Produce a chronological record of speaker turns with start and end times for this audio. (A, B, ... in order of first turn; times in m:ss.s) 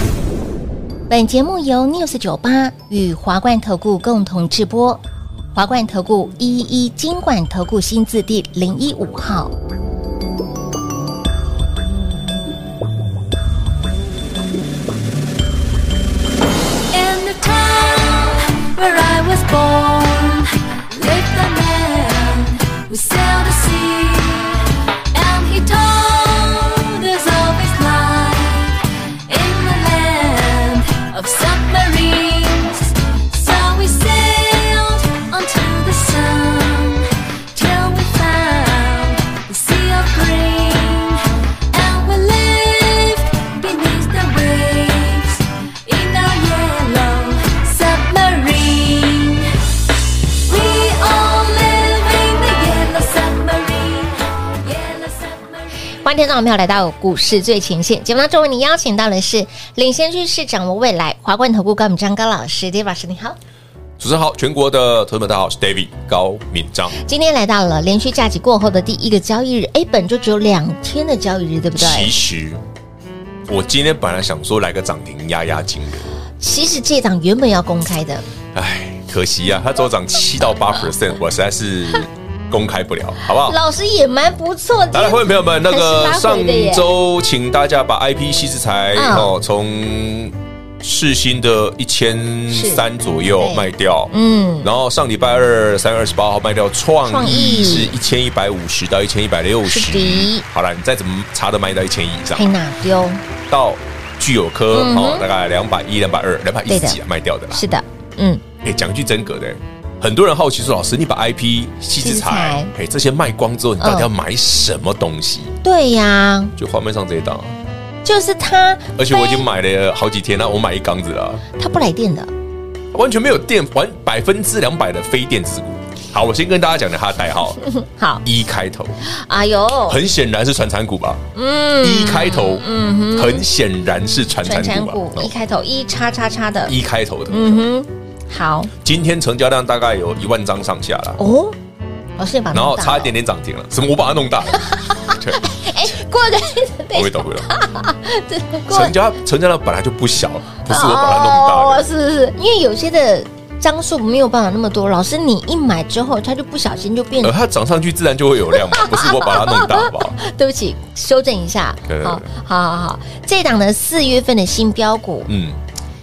0:01.1-0:05.0 A
0:05.5-0:09.5 A
0:16.9-0:49.6 B
0:50.3-0:55.7 B
0:56.0-1:03.4 A
1:04.0-1:07.0 C
1:07.0-1:12.1 A
1:11.8-1:12.6 C
1:13.5-1:16.1 C
1:16.4-1:18.2 A
1:18.5-1:23.6 C
1:23.4-1:26.9 A
1:24.9-1:42.5 C
1:28.9-1:29.3 A
1:32.5-1:32.8 A
1:33.4-1:34.7 A
1:37.0-1:38.0 A
1:39.6-1:40.4 A
1:42.3-1:43.2 A
1:43.5-1:47.6 C
1:44.7-1:45.2 A
1:46.7-1:47.0 A
1:47.5-1:48.4 A
1:48.6-1:55.5 C
1:52.0-1:52.7 A
1:53.8-1:54.1 A
1:55.6-1:56.5 A
1:56.6-1:57.5 C
1:58.0-1:59.4 A
1:59.0-2:01.4 C
2:01.6-2:02.3 A
2:02.9-2:07.6 C
2:07.7-2:08.2 A
2:08.2-2:09.0 C
2:09.0-2:10.0 A
2:09.9-2:11.2 C
2:11.3-2:13.4 A
2:11.8-2:15.3 C
2:14.4-2:16.8 A
2:16.6-2:17.6 C
2:17.3-2:18.7 A
2:18.8-2:21.2 C
2:21.2-2:21.6 A
2:22.2-2:23.1 A
2:22.5-2:25.9 C
2:24.7-2:28.9 A
2:26.9-2:27.5 C
2:28.7-2:31.9 C
2:30.6-2:37.3 A
2:37.2-2:40.1 C
2:38.5-2:45.3 A
2:41.9-2:42.3 C
2:45.3-2:45.6 C